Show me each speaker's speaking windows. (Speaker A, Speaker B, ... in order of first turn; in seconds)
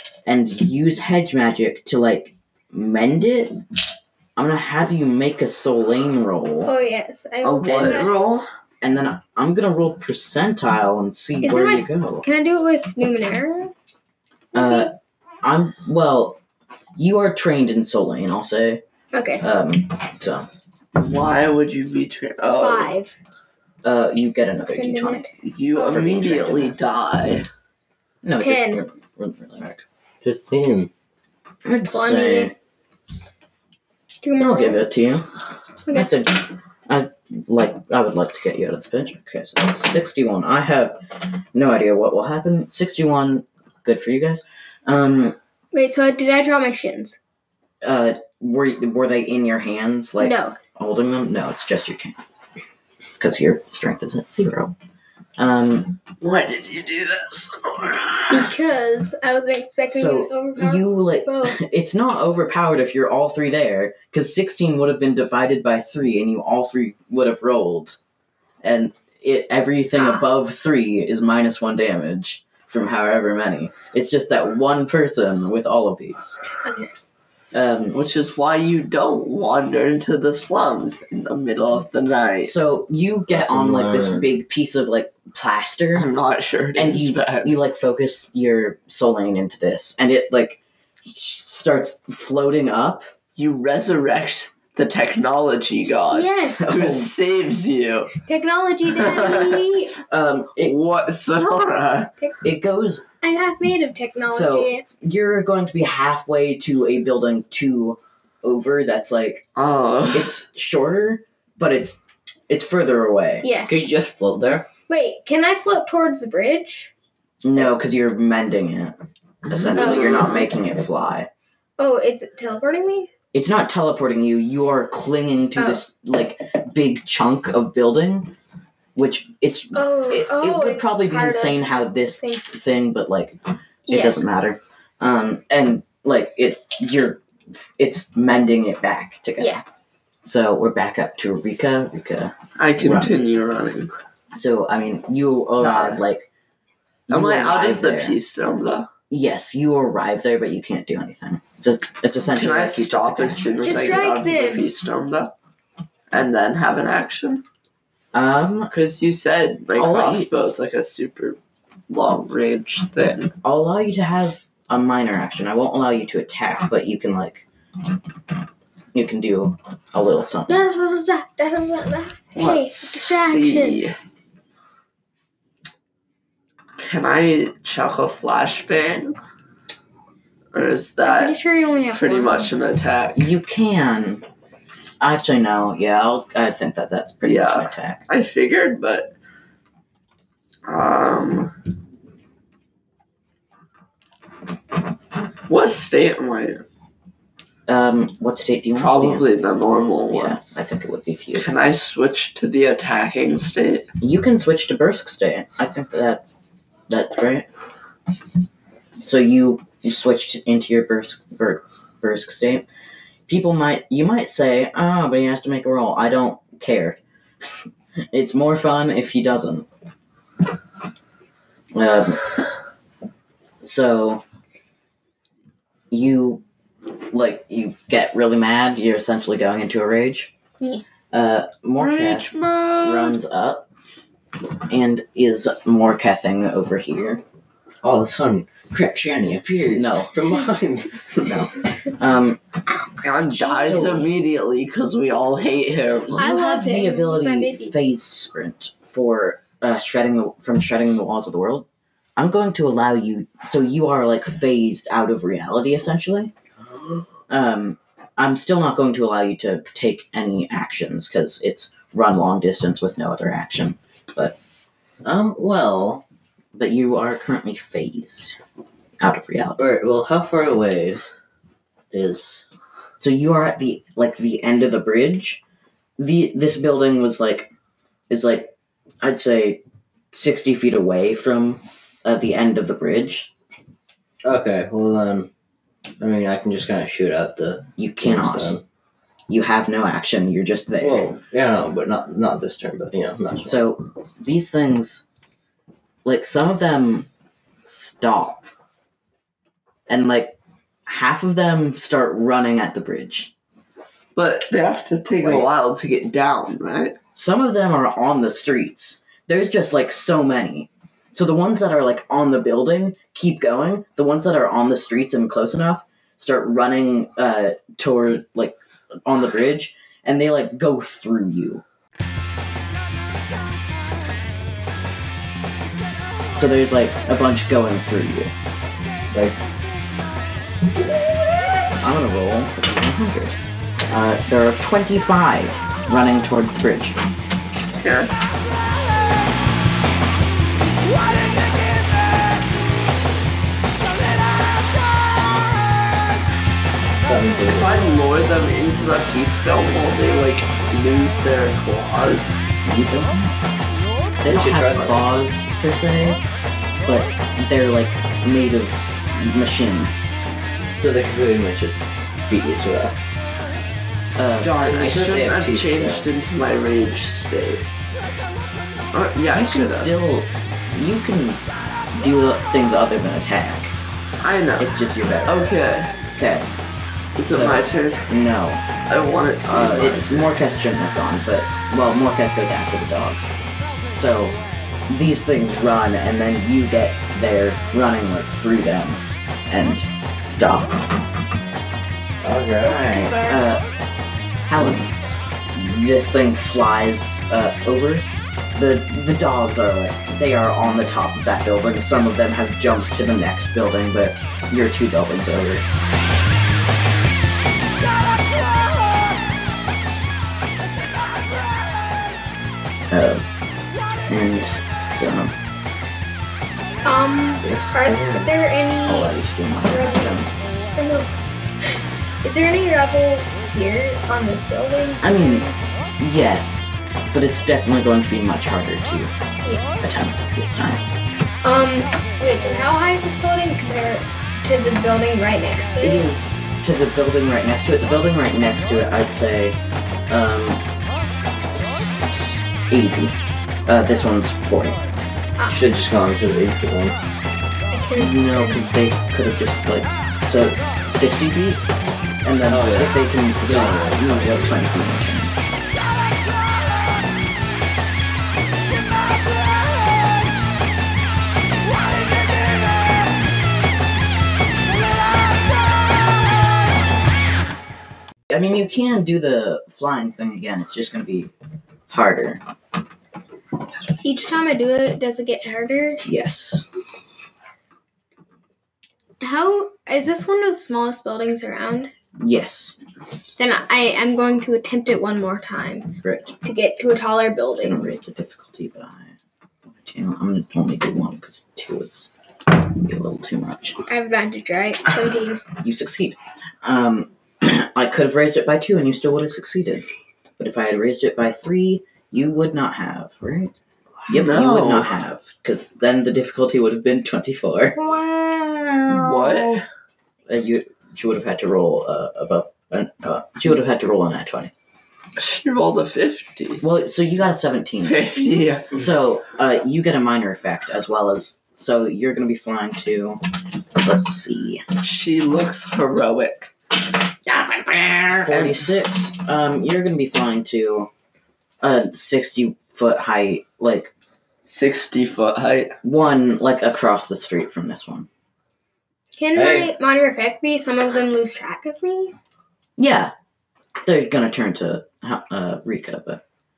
Speaker A: 0.3-3.6, 4.4-6.7, 7.7-8.1, 8.8-12.2, 14.5-16.4, 17.0-18.8, 19.4-20.5, 23.8-26.8, 28.2-29.8, 31.6-32.5, 34.4-35.3, 35.9-41.0, 41.5-45.4, 47.8-52.2, 53.2-54.7, 55.4-56.0, 59.9-68.0, 68.6-76.4, 77.5-78.0, 82.4-86.1, 86.8-93.1, 96.6-97.1, 100.1-100.7, 102.4-103.0, 104.3-109.5, 110.1-113.5, 117.4-119.0, 119.5-121.3, 123.3-128.3, 128.9-133.4, 133.9-139.6, 140.2-143.4, 144.3-146.3, 147.1-148.2, 149.1-153.8, 158.1-158.7, 159.8-160.3, 163.4-167.5, 168.9-170.7, 183.2-184.2, 185.0-188.0, 197.7-199.2, 200.1-201.5, 204.0-206.3, 206.9-207.5, 209.0-212.7, 213.3-217.0, 218.1-219.7, 221.7-222.2, 223.6-224.2, 225.9-226.4, 227.1-230.3, 231.1-233.7, 234.7-237.2, 239.7-240.1, 241.2-242.4, 243.6-244.1, 246.1-251.7, 252.2-256.3, 257.3-264.4, 266.5-268.4, 269.0-269.6, 273.0-275.4, 276.0-277.5, 278.1-283.3, 287.8-288.6, 289.3-291.2, 293.4-295.1, 296.1-297.1, 297.6-298.4, 299.9-300.4, 300.9-303.3, 305.2-305.5, 307.2-321.6, 326.3-328.3, 331.8-337.0, 352.6-353.4, 354.2-356.2, 356.9-359.9, 364.2-364.6, 369.3-371.4, 371.9-373.8, 374.6-375.5, 376.1-376.5, 377.3-378.6, 379.4-383.3, 383.9-384.4, 384.9-390.9, 392.6-393.7, 394.4-394.9, 395.5-405.6, 412.9-413.2, 414.1-415.3, 418.9-420.3, 425.0-425.5, 426.0-429.1, 429.8-430.8, 435.8-439.6, 440.1-440.6, 441.5-444.8, 448.0-451.6, 452.2-455.3, 468.3-471.3, 471.9-472.4, 476.0-476.6, 482.2-482.8, 486.0-486.3, 487.6-489.1, 489.8-493.8, 495.6-499.9, 500.4-503.5, 504.1-507.9, 509.1-509.4, 510.3-514.5, 516.6-518.1, 518.7-523.2, 523.8-524.6, 527.3-530.9, 531.6-533.9, 535.8-538.1, 542.8-543.1, 543.8-546.2
Speaker B: 6.7-8.2, 11.4-13.7, 14.6-14.9, 19.1-19.4, 22.5-23.2, 24.7-25.9, 28.4-28.8, 31.9-32.5, 34.2-34.9, 35.9-36.1, 45.7-47.2, 50.2-50.6, 58.3-61.6, 70.0-70.3, 76.6-76.9, 96.1-96.7, 98.3-99.9, 103.2-104.8, 113.4-113.7, 114.9-116.9, 119.8-120.5, 121.8-123.1, 125.6-125.8, 129.7-132.5, 133.9-134.2, 153.6-154.7, 170.5-173.8, 181.0-182.5, 243.3-244.0, 246.2-247.7, 392.6-393.4, 416.8-420.2, 420.8-421.1, 421.6-425.5, 431.4-436.1, 447.7-448.7, 474.0-476.0, 479.2-481.9, 483.4-487.8, 493.9-495.4, 539.2-542.1
Speaker C: 7.4-8.5, 21.0-22.9, 25.4-27.5, 56.2-58.5, 77.9-82.5, 85.9-87.6, 93.3-98.2, 98.9-99.7, 100.6-102.1, 109.6-110.3, 119.5-120.5, 142.6-143.9, 145.6-146.0, 147.1-148.9, 152.3-155.3, 156.1-157.4, 158.7-161.4, 161.9-163.3, 172.3-173.9, 176.8-179.2, 180.5-181.4, 181.9-183.2, 187.2-189.1, 190.7-191.5, 195.5-196.7, 198.8-200.4, 201.3-203.9, 231.8-233.1, 243.0-246.3, 304.1-307.0, 337.8-338.1, 347.5-352.4, 364.4-367.7, 368.9-369.9, 374.2-374.7, 375.3-375.9, 377.2-378.1, 378.9-380.3, 504.1-504.9, 508.9-509.6, 515.2-516.6, 517.8-518.8, 524.8-526.5, 528.1-528.6, 534.5-535.8
Speaker D: 30.2-30.9, 83.3-84.3, 113.7-114.7, 237.8-241.5, 265.0-266.0, 269.6-271.1, 271.9-272.4, 284.2-285.3, 286.0-288.6, 290.8-293.6, 329.1-329.4, 347.0-347.9, 354.3-355.1, 360.8-361.8, 362.3-363.0, 364.6-366.1, 392.2-392.8, 417.4-418.3, 445.5-447.0, 452.5-454.6, 539.4-539.7